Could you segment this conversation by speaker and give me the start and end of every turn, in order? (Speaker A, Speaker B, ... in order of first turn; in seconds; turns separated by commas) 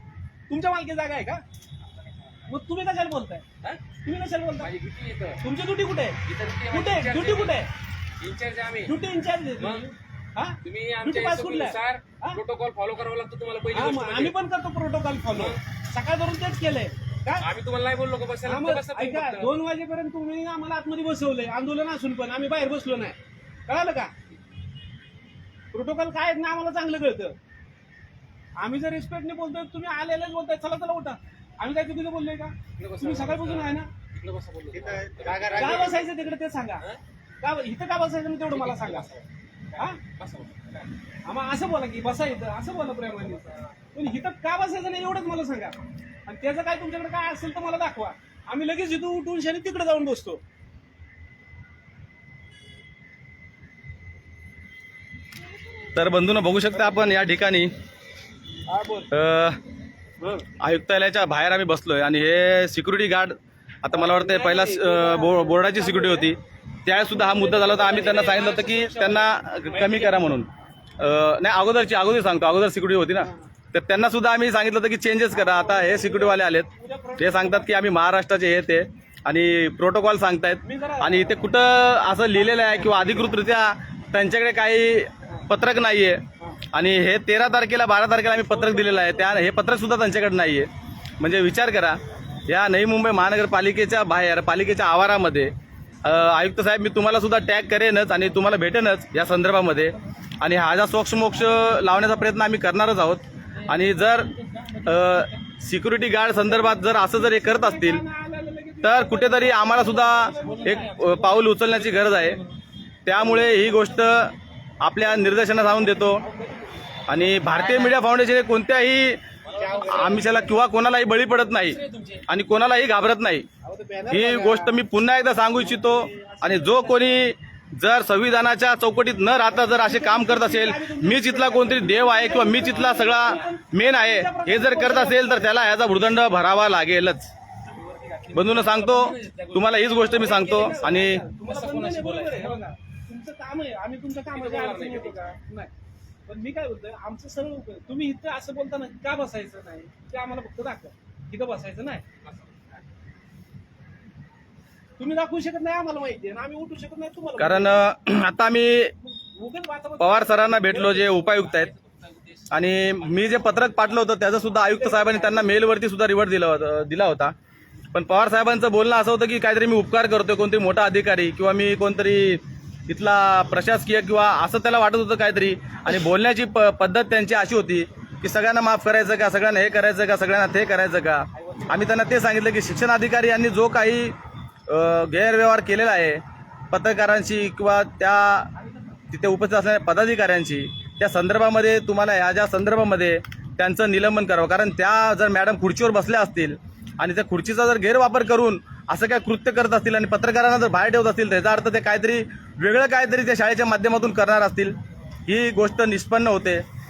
Speaker A: 0.5-1.4, Speaker A: 2.5-3.4, Speaker A: 4.0-4.7, Speaker B: 4.6-5.4, Speaker A: 5.4-7.7, Speaker B: 6.2-7.6, Speaker B: 8.2-8.9, Speaker A: 8.8-12.4, Speaker B: 9.6-9.8, Speaker B: 10.6-14.3, Speaker A: 13.7-17.5, Speaker B: 15.3-15.6, Speaker B: 17.4-19.6, Speaker A: 18.4-24.1, Speaker A: 25.7-27.4, Speaker A: 28.6-33.9, Speaker B: 32.8-36.1, Speaker A: 35.4-36.9, Speaker A: 37.4-39.1, Speaker B: 38.5-40.9, Speaker A: 41.2-50.4, Speaker C: 55.9-57.7, Speaker A: 58.7-59.1, Speaker C: 59.1-59.6, Speaker C: 60.6-95.5, Speaker A: 63.9-66.3, Speaker A: 66.9-68.4, Speaker B: 67.7-70.4, Speaker A: 75.3-77.7, Speaker A: 80.6-81.3, Speaker A: 82.3-83.3, Speaker A: 88.5-89.4, Speaker C: 96.0-104.3, Speaker C: 104.8-108.0, Speaker A: 107.1-111.4, Speaker C: 108.8-112.4, Speaker B: 110.3-112.4, Speaker C: 113.0-116.2, Speaker A: 116.2-116.7, Speaker C: 117.1-119.2, Speaker B: 119.5-120.4, Speaker A: 119.5-120.5, Speaker C: 119.8-123.5, Speaker B: 121.7-122.2, Speaker A: 123.6-124.8, Speaker C: 124.1-137.3, Speaker A: 125.6-127.2, Speaker A: 129.5-135.7, Speaker B: 132.5-133.4, Speaker B: 137.8-140.9, Speaker C: 138.3-141.2, Speaker A: 140.0-145.7, Speaker B: 141.4-142.6, Speaker B: 144.3-145.2, Speaker A: 146.3-152.0, Speaker B: 152.2-152.7, Speaker A: 155.0-157.8, Speaker C: 157.4-158.9, Speaker A: 159.0-161.2, Speaker C: 160.0-161.7, Speaker B: 161.2-163.8, Speaker C: 162.5-167.3, Speaker A: 164.6-165.6, Speaker C: 167.9-184.2, Speaker A: 181.5-181.9, Speaker C: 184.7-188.5, Speaker C: 189.1-204.7, Speaker C: 205.2-206.6